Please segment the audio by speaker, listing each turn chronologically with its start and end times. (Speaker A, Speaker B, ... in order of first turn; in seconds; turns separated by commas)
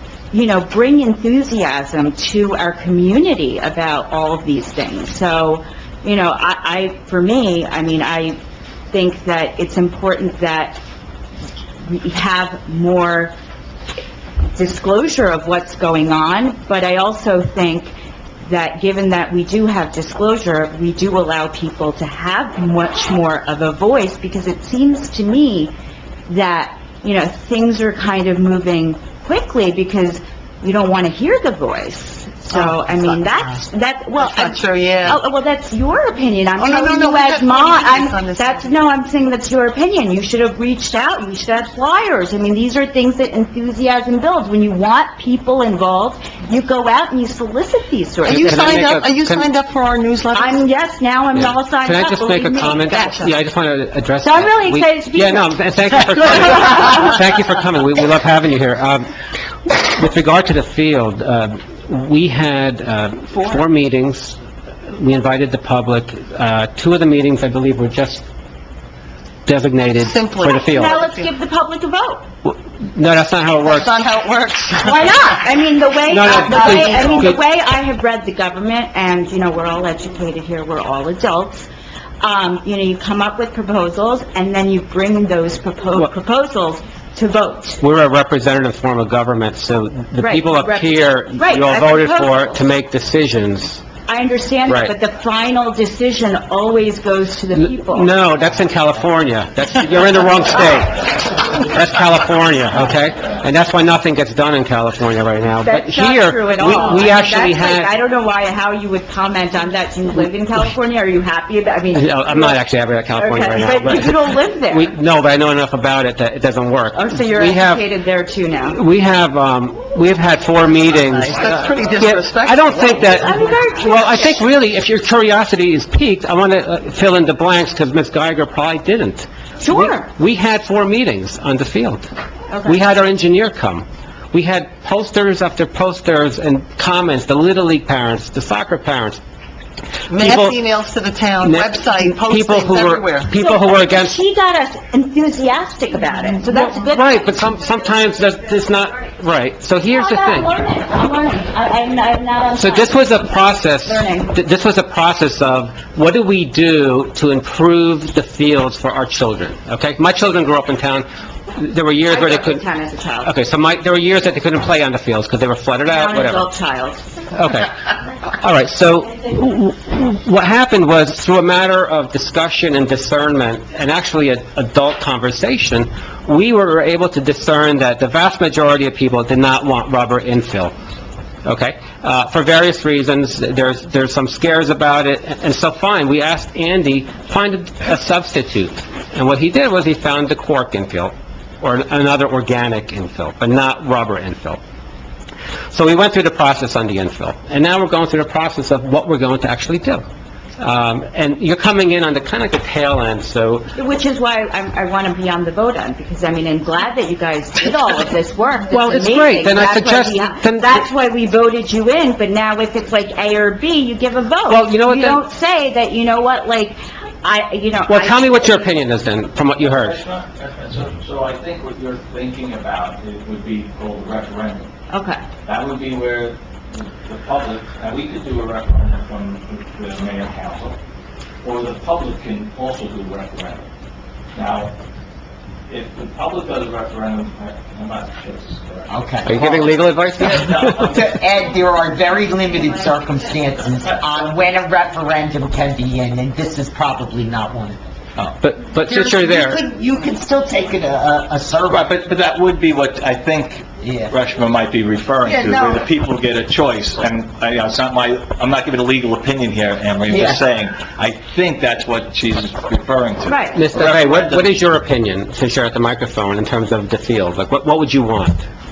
Speaker A: 0.3-8.4, Speaker A: 8.9-10.8, Speaker A: 11.8-13.3, Speaker A: 14.6-17.9, Speaker A: 18.5-25.7, Speaker A: 26.3-49.0, Speaker B: 32.5-33.6, Speaker B: 34.2-35.2, Speaker B: 36.6-38.7, Speaker C: 48.3-49.5, Speaker B: 48.3-50.6, Speaker A: 50.4-53.3, Speaker C: 51.4-59.1, Speaker A: 54.2-57.0, Speaker C: 59.7-64.4, Speaker C: 64.9-68.2, Speaker C: 69.5-71.0, Speaker B: 70.0-71.3, Speaker A: 70.5-72.3, Speaker C: 72.4-73.9, Speaker B: 73.6-75.3, Speaker A: 74.8-81.7, Speaker C: 76.1-77.4, Speaker B: 76.3-77.2, Speaker A: 82.2-87.8, Speaker C: 87.8-93.8, Speaker A: 90.2-92.6, Speaker A: 94.1-98.1, Speaker C: 94.7-94.9, Speaker C: 97.6-107.9, Speaker A: 105.6-112.6, Speaker C: 111.9-117.8, Speaker A: 113.2-114.9, Speaker A: 116.9-118.8, Speaker C: 118.7-132.1, Speaker B: 121.0-123.2, Speaker A: 123.0-124.2, Speaker A: 129.6-130.1, Speaker A: 132.5-132.8, Speaker C: 132.6-139.2, Speaker B: 140.1-143.3, Speaker C: 140.1-140.6, Speaker C: 141.4-144.2, Speaker A: 143.4-147.3, Speaker C: 146.5-150.5, Speaker A: 149.9-153.2, Speaker C: 152.6-162.6, Speaker A: 153.8-154.3, Speaker A: 162.1-163.3, Speaker C: 163.2-166.5, Speaker A: 165.9-167.1, Speaker C: 167.3-167.7, Speaker C: 168.4-180.7, Speaker C: 181.4-194.6, Speaker C: 195.7-200.0, Speaker C: 200.6-203.7, Speaker A: 203.7-218.8, Speaker C: 208.7-210.8, Speaker C: 214.5-215.2, Speaker C: 217.9-220.0, Speaker D: 219.6-224.7, Speaker A: 224.9-225.2, Speaker D: 225.5-230.8, Speaker D: 231.4-233.7, Speaker D: 234.3-234.7, Speaker D: 235.7-241.2, Speaker E: 238.9-247.8, Speaker C: 239.2-240.9, Speaker C: 248.4-249.6, Speaker E: 248.9-251.9, Speaker D: 251.7-264.5, Speaker E: 253.8-254.2, Speaker E: 255.2-255.8, Speaker E: 260.1-260.4, Speaker A: 263.3-263.6, Speaker C: 263.6-268.5